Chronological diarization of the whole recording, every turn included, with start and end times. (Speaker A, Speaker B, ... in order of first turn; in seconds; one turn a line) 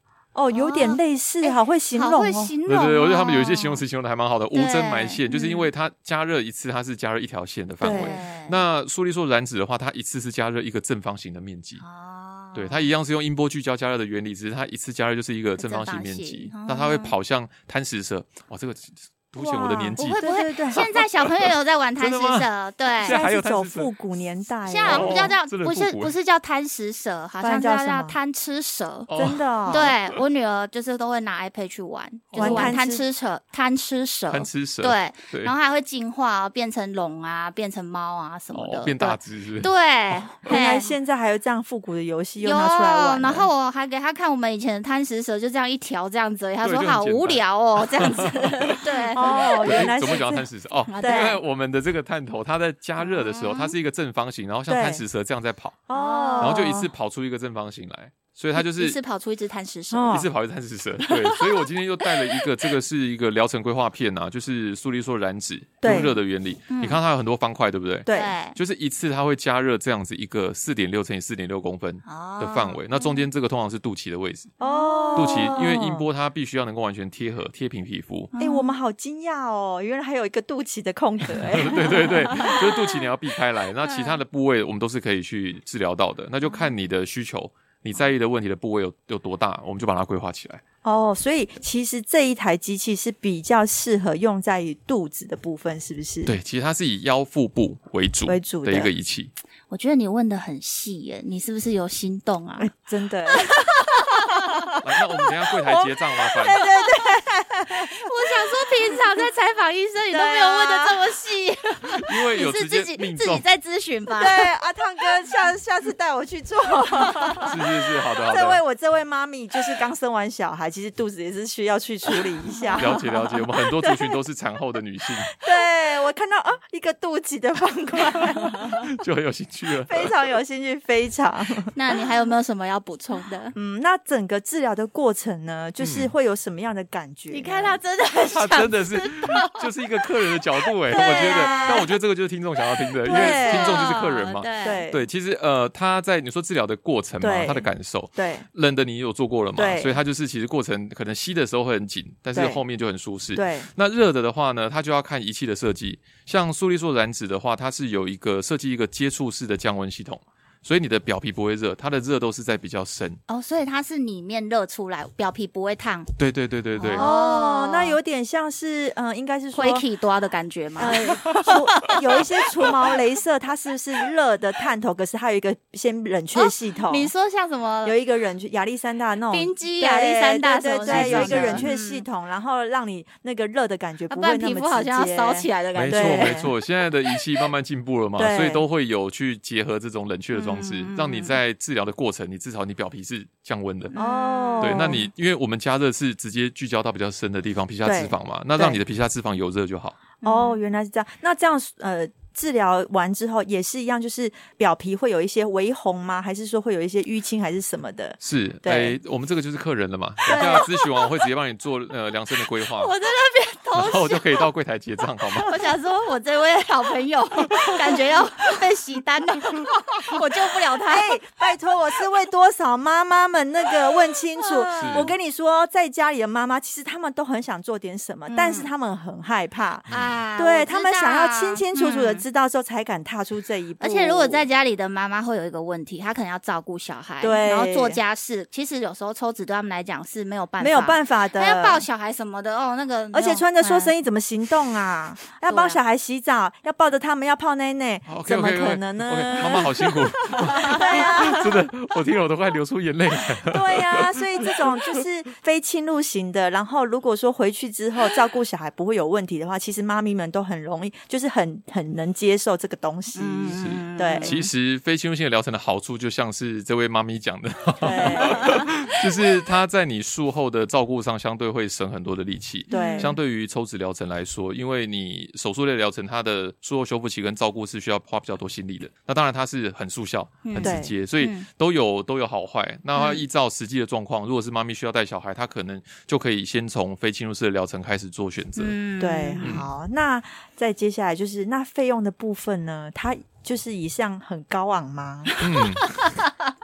Speaker A: 0.3-2.5
Speaker B: 0.5-3.8
Speaker C: 2.6-11.8
Speaker B: 4.5-5.7
Speaker A: 7.8-8.1
Speaker B: 7.8-8.6
Speaker B: 11.8-12.9
Speaker C: 12.5-20.2
Speaker B: 15.6-17.1
Speaker A: 19.4-20.9
Speaker B: 20.0-23.2
Speaker C: 22.0-23.9
Speaker A: 23.0-25.3
Speaker B: 24.6-29.1
Speaker C: 24.8-26.1
Speaker A: 27.4-28.2
Speaker C: 29.1-30.2
Speaker A: 29.1-29.9
Speaker B: 29.7-40.9
Speaker C: 32.3-32.8
Speaker A: 32.4-33.0
Speaker C: 34.3-35.5
Speaker C: 38.5-40.5
Speaker A: 40.5-43.5
Speaker B: 42.4-49.9
Speaker C: 46.6-55.9
Speaker A: 48.2-50.5
Speaker B: 50.9-51.4
Speaker A: 51.0-51.4
Speaker B: 53.0-53.7
Speaker A: 54.7-55.0
Speaker A: 55.9-56.9
Speaker B: 55.9-56.7
Speaker C: 56.4-59.0
Speaker B: 58.5-60.2
Speaker A: 59.9-60.3
Speaker C: 60.1-74.5
Speaker A: 65.8-66.2
Speaker B: 66.7-67.0
Speaker A: 68.0-68.3
Speaker B: 68.1-68.5
Speaker B: 72.0-73.2
Speaker A: 74.6-76.1
Speaker B: 74.6-75.9
Speaker C: 75.2-78.3
Speaker B: 78.3-78.8
Speaker A: 78.4-82.7
Speaker C: 81.3-90.6
Speaker B: 83.9-84.1
Speaker A: 90.8-96.4
Speaker C: 96.2-99.3
Speaker A: 98.2-98.9
Speaker B: 99.7-102.7
Speaker A: 102.6-103.6
Speaker B: 103.5-104.3
Speaker C: 104.8-106.6
Speaker A: 105.6-108.1
Speaker B: 107.8-114.5
Speaker A: 110.1-111.0
Speaker C: 112.0-113.4
Speaker A: 114.2-117.6
Speaker C: 117.5-118.6
Speaker A: 118.2-123.0
Speaker B: 122.6-123.3
Speaker C: 122.8-125.3
Speaker A: 123.8-124.2
Speaker A: 125.4-128.7
Speaker C: 128.8-130.1
Speaker A: 129.8-131.7
Speaker B: 131.7-133.5
Speaker A: 133.5-137.8
Speaker C: 135.8-136.1
Speaker B: 137.3-139.5
Speaker C: 138.3-163.2
Speaker B: 140.9-141.9
Speaker A: 140.9-141.8
Speaker A: 143.1-143.9
Speaker B: 143.1-144.8
Speaker A: 144.6-145.1
Speaker A: 147.2-148.4
Speaker A: 149.6-150.0
Speaker A: 152.3-152.6
Speaker A: 153.3-153.7
Speaker B: 163.3-166.1
Speaker C: 166.2-167.1
Speaker B: 166.8-168.0
Speaker A: 166.9-169.8
Speaker B: 169.5-172.0
Speaker A: 170.8-177.1
Speaker B: 176.3-178.0
Speaker A: 177.8-186.5
Speaker B: 179.3-182.0
Speaker C: 180.8-181.7
Speaker B: 184.1-186.4
Speaker C: 185.7-193.9
Speaker A: 188.2-188.7
Speaker B: 190.3-191.3
Speaker B: 193.9-195.0
Speaker A: 193.9-195.1
Speaker C: 194.6-200.0
Speaker A: 197.8-198.8
Speaker B: 200.2-200.6
Speaker A: 200.2-209.0
Speaker C: 208.2-212.9
Speaker A: 210.3-210.7
Speaker B: 212.7-214.3
Speaker C: 213.8-215.5
Speaker B: 215.4-221.2
Speaker A: 220.9-234.5
Speaker B: 224.4-225.1
Speaker C: 224.8-225.1
Speaker B: 228.3-228.7
Speaker B: 229.9-232.2
Speaker B: 233.8-243.9
Speaker A: 237.2-238.0
Speaker A: 240.6-241.8
Speaker A: 243.1-251.7
Speaker B: 245.5-245.8
Speaker C: 248.1-254.7
Speaker A: 253.5-264.4
Speaker B: 263.1-264.5
Speaker C: 263.5-288.8
Speaker A: 267.8-268.6
Speaker A: 272.7-273.1
Speaker B: 272.7-273.1
Speaker B: 280.4-281.4
Speaker A: 280.6-280.9
Speaker B: 282.9-283.2
Speaker B: 288.6-289.6
Speaker A: 289.0-295.3
Speaker C: 289.4-289.7
Speaker C: 295.4-296.0